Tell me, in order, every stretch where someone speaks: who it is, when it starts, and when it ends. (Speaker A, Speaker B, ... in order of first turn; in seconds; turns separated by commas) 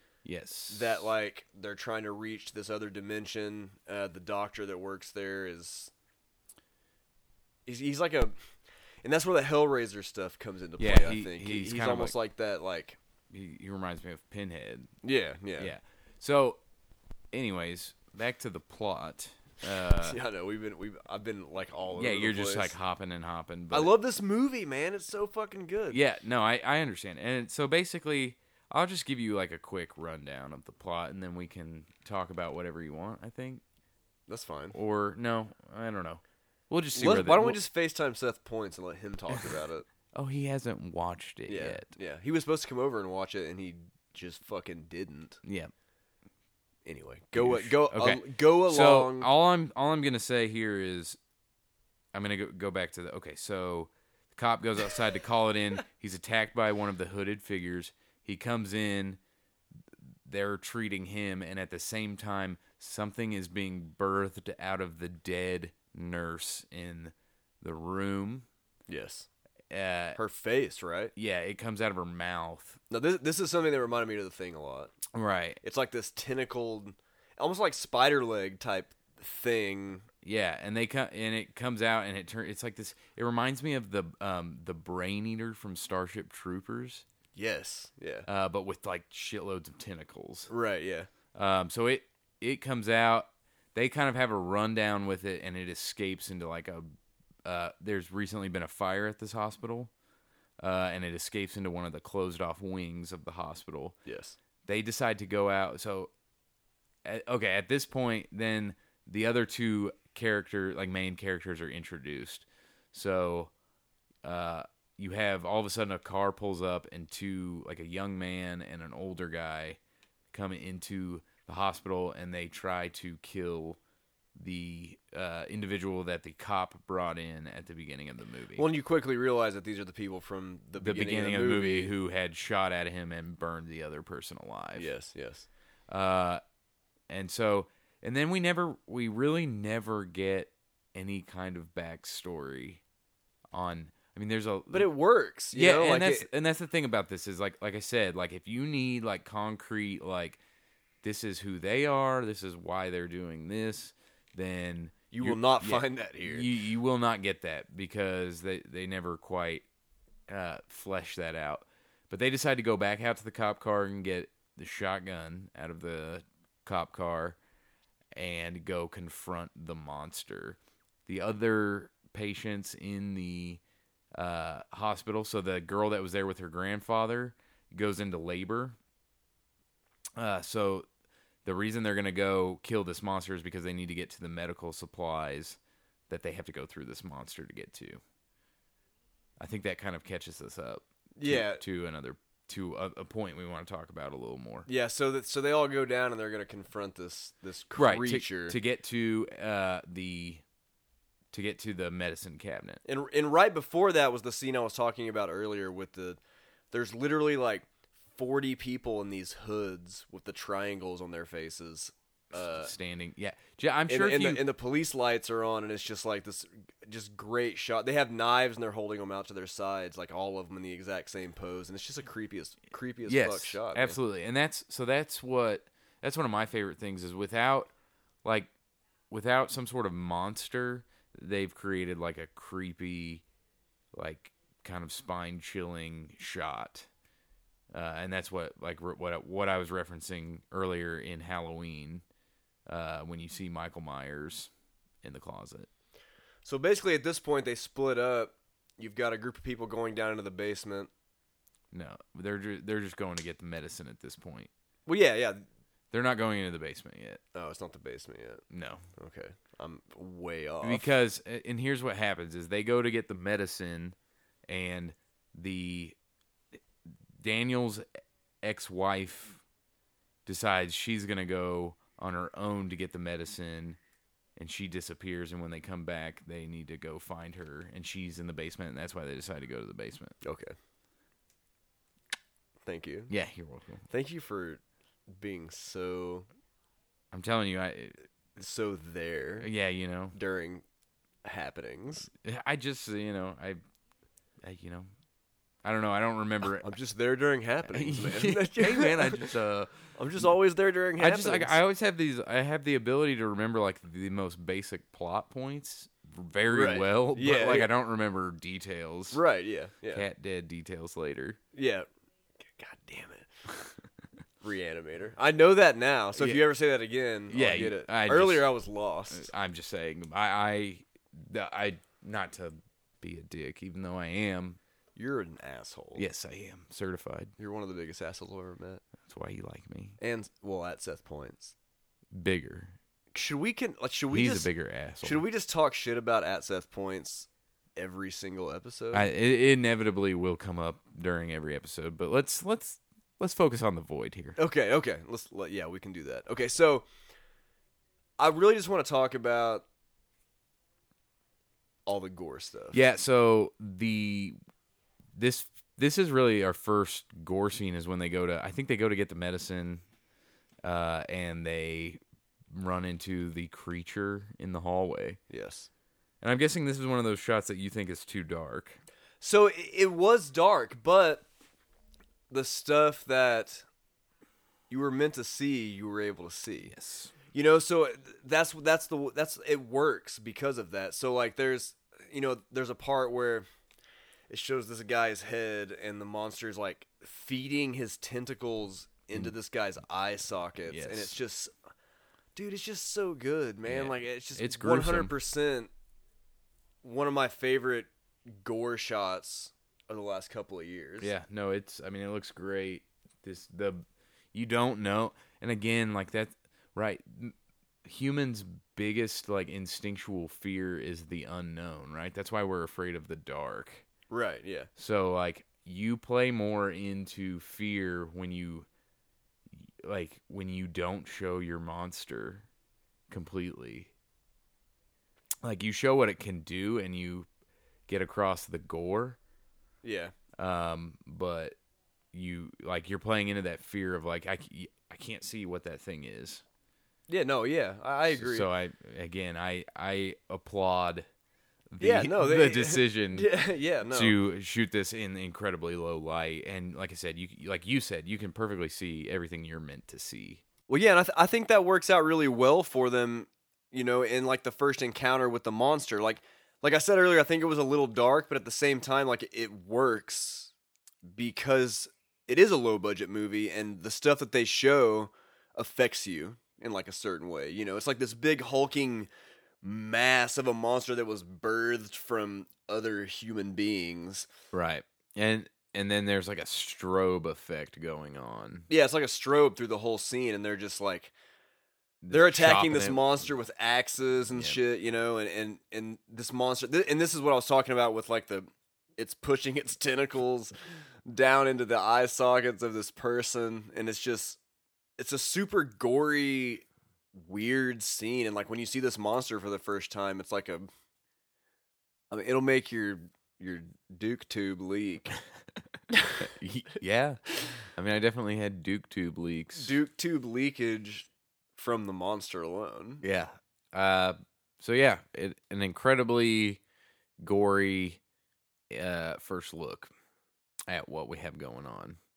Speaker A: 0.2-1.1, Speaker B: 0.7-5.9, Speaker B: 7.7-8.4, Speaker B: 9.0-13.0, Speaker A: 10.8-12.2, Speaker A: 13.3-14.9, Speaker B: 15.0-15.7, Speaker A: 15.6-16.6, Speaker A: 17.3-20.2, Speaker B: 19.9-22.7, Speaker A: 21.9-23.9, Speaker B: 23.7-26.0, Speaker A: 25.9-33.6, Speaker B: 34.3-34.7, Speaker A: 34.7-37.6, Speaker B: 36.9-39.8, Speaker A: 40.1-41.9, Speaker B: 41.5-45.4, Speaker A: 45.4-45.7, Speaker B: 46.9-49.3, Speaker A: 47.3-51.2, Speaker A: 52.1-59.2, Speaker A: 60.2-68.5, Speaker B: 68.9-69.3, Speaker A: 69.7-70.2, Speaker B: 70.2-71.1, Speaker A: 71.1-72.8, Speaker B: 72.9-74.9, Speaker A: 75.1-75.6, Speaker B: 75.6-80.0, Speaker A: 80.2-87.0, Speaker B: 87.3-88.3, Speaker A: 88.2-90.5, Speaker B: 90.5-91.1, Speaker A: 91.3-96.9, Speaker A: 97.4-99.9, Speaker A: 100.6-104.0, Speaker B: 104.0-104.4, Speaker A: 104.6-106.1, Speaker A: 107.0-113.5, Speaker A: 114.2-119.8, Speaker A: 120.3-123.8, Speaker A: 124.3-128.7, Speaker B: 128.6-131.9, Speaker A: 130.8-134.9, Speaker B: 134.8-135.5, Speaker A: 135.9-136.4, Speaker A: 137.1-142.8, Speaker A: 143.5-144.9, Speaker B: 144.7-146.3, Speaker A: 145.5-150.4, Speaker A: 151.0-159.6, Speaker B: 155.1-156.5, Speaker A: 160.3-167.4, Speaker A: 168.1-173.6, Speaker A: 174.1-178.8, Speaker A: 180.2-180.9, Speaker A: 181.4-188.0, Speaker A: 189.4-194.7, Speaker B: 191.2-191.6, Speaker B: 194.7-198.6, Speaker A: 197.7-200.4, Speaker A: 201.3-202.8, Speaker B: 202.8-206.2, Speaker B: 206.7-212.7, Speaker A: 212.3-214.4, Speaker B: 213.9-224.0, Speaker A: 223.1-227.7, Speaker A: 228.2-228.5, Speaker A: 229.1-233.2, Speaker A: 233.9-236.9, Speaker A: 237.7-242.0, Speaker A: 242.7-244.5, Speaker A: 245.0-245.7, Speaker B: 246.4-250.9, Speaker A: 251.7-254.5, Speaker B: 254.9-255.4, Speaker A: 255.9-257.2, Speaker B: 257.3-258.4, Speaker A: 258.5-258.8, Speaker B: 258.9-260.9, Speaker A: 260.6-263.9, Speaker A: 264.5-265.9, Speaker A: 267.1-267.9, Speaker A: 268.4-269.4, Speaker A: 270.2-273.8, Speaker A: 274.4-280.1, Speaker B: 280.2-280.5, Speaker B: 282.6-283.1, Speaker A: 283.1-283.8, Speaker B: 283.9-286.3, Speaker A: 287.1-288.0, Speaker B: 288.4-289.5, Speaker A: 289.4-290.1, Speaker B: 290.1-290.6, Speaker B: 291.2-292.1, Speaker A: 292.2-293.6, Speaker A: 294.4-294.9, Speaker A: 295.6-296.7, Speaker B: 296.6-299.3, Speaker A: 297.7-300.3, Speaker B: 299.9-301.6, Speaker A: 301.0-309.2, Speaker B: 306.5-307.7, Speaker B: 309.1-310.0, Speaker A: 309.9-311.4, Speaker B: 311.5-311.9, Speaker B: 312.4-313.3, Speaker B: 314.4-319.3, Speaker A: 316.1-316.4, Speaker A: 317.3-318.5, Speaker A: 319.1-324.6, Speaker B: 324.9-326.1, Speaker A: 325.9-327.3, Speaker B: 327.4-328.8, Speaker A: 329.0-330.0, Speaker B: 330.0-331.5, Speaker A: 332.1-332.8, Speaker B: 333.1-334.5, Speaker A: 334.1-335.2, Speaker B: 335.0-339.1, Speaker A: 338.9-344.4, Speaker B: 344.4-346.9, Speaker B: 348.2-349.6, Speaker B: 351.9-352.8, Speaker A: 352.7-354.4, Speaker A: 355.1-359.8, Speaker A: 360.6-365.2, Speaker B: 365.3-365.7, Speaker A: 366.2-368.8, Speaker B: 369.2-371.3, Speaker B: 372.3-373.6, Speaker B: 374.7-376.7, Speaker A: 376.7-377.1, Speaker B: 377.3-383.5, Speaker B: 384.3-391.5, Speaker A: 390.7-391.1, Speaker B: 392.3-395.7, Speaker A: 393.7-395.1, Speaker B: 396.8-401.1, Speaker A: 401.0-413.8, Speaker B: 414.1-414.7, Speaker A: 414.8-418.7, Speaker A: 419.5-422.4, Speaker A: 423.1-423.9, Speaker A: 425.4-427.3, Speaker A: 427.9-429.2, Speaker B: 429.8-430.1, Speaker A: 430.4-431.6, Speaker A: 432.1-436.4, Speaker B: 437.1-438.5, Speaker A: 438.1-441.1, Speaker A: 441.7-443.3, Speaker B: 441.8-444.1, Speaker A: 443.9-450.4, Speaker B: 450.7-460.5, Speaker B: 461.1-469.1, Speaker B: 469.6-474.3, Speaker A: 474.5-478.7, Speaker B: 478.7-481.1, Speaker A: 482.0-483.4, Speaker B: 482.1-490.5, Speaker A: 484.3-484.6, Speaker B: 491.1-494.4, Speaker B: 495.0-500.7, Speaker B: 502.1-505.2, Speaker B: 505.9-506.2, Speaker A: 506.2-509.8, Speaker B: 509.6-513.0, Speaker A: 513.0-516.6, Speaker A: 517.2-518.0, Speaker A: 518.7-519.9, Speaker A: 520.7-522.0